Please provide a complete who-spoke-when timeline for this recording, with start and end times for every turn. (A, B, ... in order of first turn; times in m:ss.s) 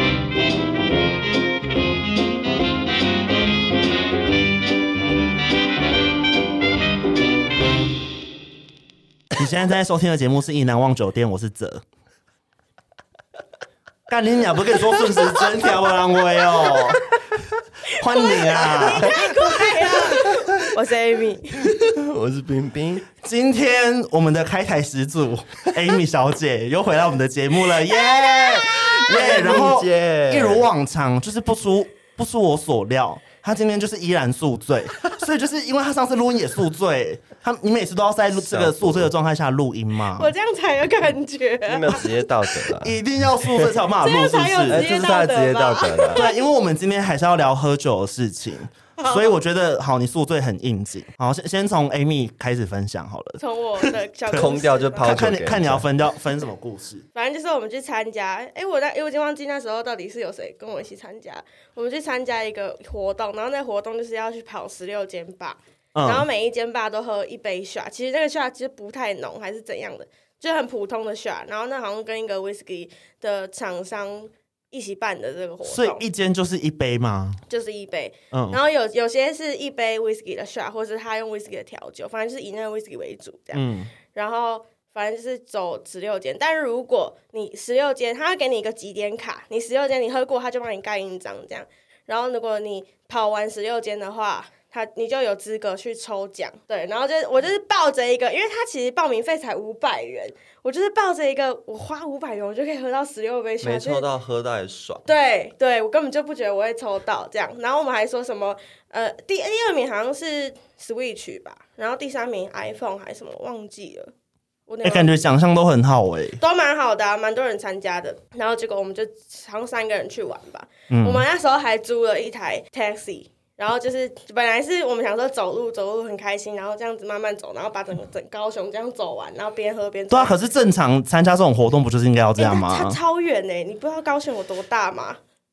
0:09.4-0:11.8 A
0:14.1-0:17.0 A
0:16.4-0:17.1 B
0:17.9-0:21.7 B
0:17.9-0:19.3 A
0:20.2-0:20.7 C
0:21.6-0:23.1 C
0:23.2-0:40.3 A
0:27.9-0:29.2 B
0:29.1-0:30.7 C
0:38.4-0:39.1 C
0:40.2-0:42.1 B
0:41.6-0:43.7 C
0:42.8-0:44.8 A
0:44.0-0:46.4 B
0:44.7-0:46.2 C
0:46.1-0:53.4 A
0:49.0-0:49.4 B
0:53.4-0:55.3 B
0:54.3-0:55.9 C
0:54.3-0:57.0 A
0:57.2-1:16.0 B
1:05.9-1:06.2 A
1:15.6-1:17.4 A
1:17.5-1:44.0 B
1:18.3-1:18.6 A
1:23.5-1:23.9 A
1:43.6-1:45.0 C
1:45.1-1:54.1 B
1:54.7-1:55.2 B
1:54.8-1:56.4 A
1:56.4-2:10.3 B
2:00.9-2:01.2 A
2:10.1-2:13.0 A
2:12.4-2:15.2 B